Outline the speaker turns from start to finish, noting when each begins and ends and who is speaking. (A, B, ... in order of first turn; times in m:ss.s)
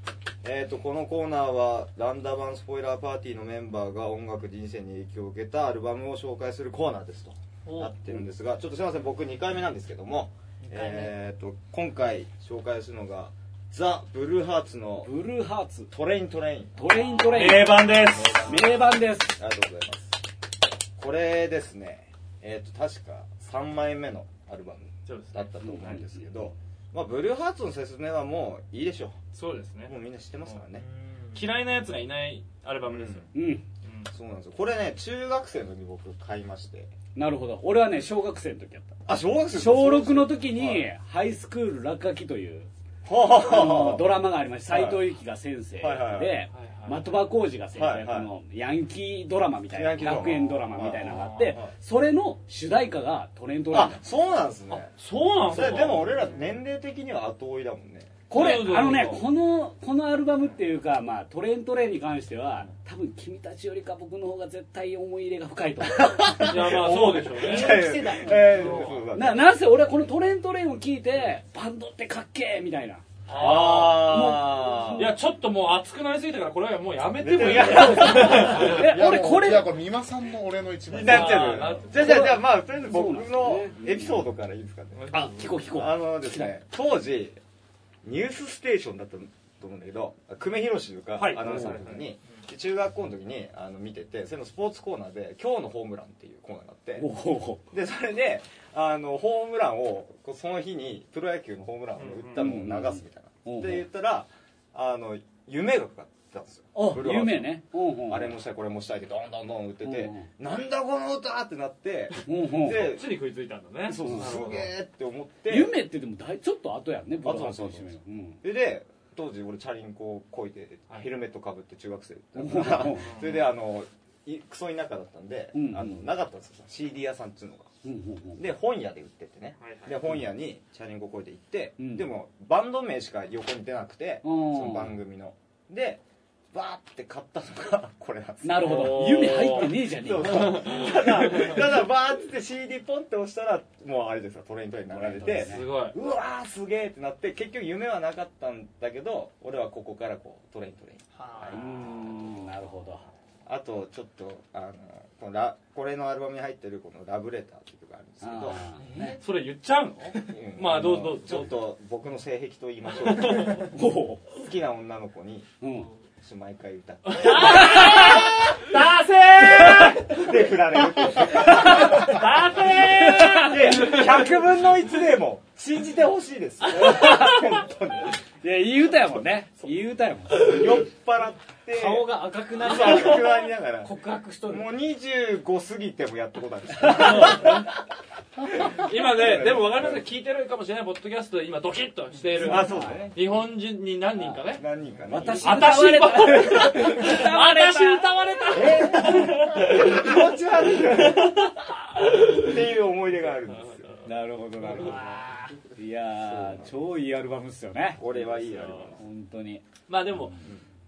0:00.4-0:15.1 A
0:07.6-0:07.9 B
0:10.6-0:11.1 B
0:15.0-0:15.9 C
0:15.9-0:18.6 A
0:16.8-0:19.4 C
0:17.3-0:18.6 D
0:19.3-0:20.2 A
0:21.0-0:29.2 A
0:25.0-0:25.5 D
0:25.6-0:26.3 C
0:29.3-0:30.6 D
0:29.8-0:30.8 A
0:30.8-0:31.4 B
0:31.3-0:33.3 D
0:32.9-0:33.3 A
0:33.3-0:33.6 C
0:33.8-0:34.1 D
0:34.1-0:36.9 A
0:37.1-0:39.0 C
0:39.0-0:40.9 A
0:39.5-0:42.7 C
0:43.0-0:45.1 A
0:43.3-0:54.0 C
0:45.8-0:46.4 A
0:46.5-0:47.2 D
0:47.7-0:48.3 A
0:49.7-0:51.7 A
0:51.0-0:51.5 D
0:53.7-0:54.9 A
0:54.7-0:56.3 D
0:55.4-0:58.2 A
0:58.3-1:06.5 C
0:58.3-0:59.2 D
1:06.0-1:09.5 A
1:06.4-1:09.0 D
1:07.3-1:08.9 B
1:09.1-1:13.0 C
1:13.3-1:14.4 D
1:13.3-1:15.2 A
1:13.6-1:15.2 C
1:14.9-1:18.8 D
1:17.2-1:18.8 A
1:17.4-1:19.8 C
1:18.6-1:21.8 E
1:20.9-1:27.4 A
1:20.9-1:22.4 D
1:21.9-1:24.2 C
1:24.9-1:25.5 D
1:25.1-1:26.5 C
1:28.0-1:37.1 A
1:31.2-1:32.2 D
1:31.4-1:31.7 C
1:37.0-1:37.6 C
1:37.7-1:53.1 A
1:42.0-1:42.4 D
1:42.3-1:43.8 C
1:46.7-1:48.4 C
1:49.8-1:50.3 C
1:52.2-1:52.9 C
1:52.6-1:54.7 D
1:53.9-1:55.7 A
1:54.0-1:54.3 C
1:55.5-1:58.4 C
1:57.2-2:07.7 A
2:02.4-2:03.1 C
2:03.0-2:03.5 D
2:05.5-2:06.1 C
2:07.8-2:08.4 C
2:08.4-2:16.0 A
2:09.6-2:10.0 D
2:11.8-2:12.1 C
2:14.2-2:15.0 C
2:16.5-2:31.6 A
2:18.4-2:21.1 C
2:18.6-2:21.7 D
2:24.9-2:25.6 C
2:25.4-2:25.9 D
2:31.2-2:31.7 B
2:31.5-2:33.0 C
2:33.4-2:38.6 A
2:38.2-2:39.2 C
2:38.8-2:39.2 B
2:39.2-2:41.5 D
2:40.2-2:43.7 A
2:43.0-2:43.6 D
2:43.6-2:44.2 C
2:44.3-2:45.5 A
2:45.6-2:45.9 C
2:46.2-2:48.1 A
2:47.0-2:50.4 D
2:47.4-2:48.3 C
2:49.4-2:58.2 A
2:51.3-2:52.1 C
2:51.4-2:54.4 D
2:52.9-2:53.5 C
2:56.7-2:57.6 C
2:58.4-3:00.6 C
3:00.3-3:04.0 A
3:01.7-3:04.7 B
3:04.5-3:07.7 A
3:06.8-3:07.7 D
3:08.5-3:10.0 A
3:08.7-3:14.6 D
3:12.4-3:13.2 A
3:12.4-3:13.1 C
3:14.2-3:15.9 A
3:15.1-3:18.9 C
3:15.4-3:20.1 D
3:18.5-3:25.0 A
3:21.0-3:21.5 D
3:22.0-3:22.4 D
3:23.2-3:24.1 D
3:24.0-3:25.0 C
3:24.8-3:25.6 B
3:25.7-3:28.0 C
3:26.1-3:26.8 A
3:28.0-3:29.0 A
3:28.1-3:29.0 D
3:29.0-3:30.4 C
3:29.9-3:30.4 D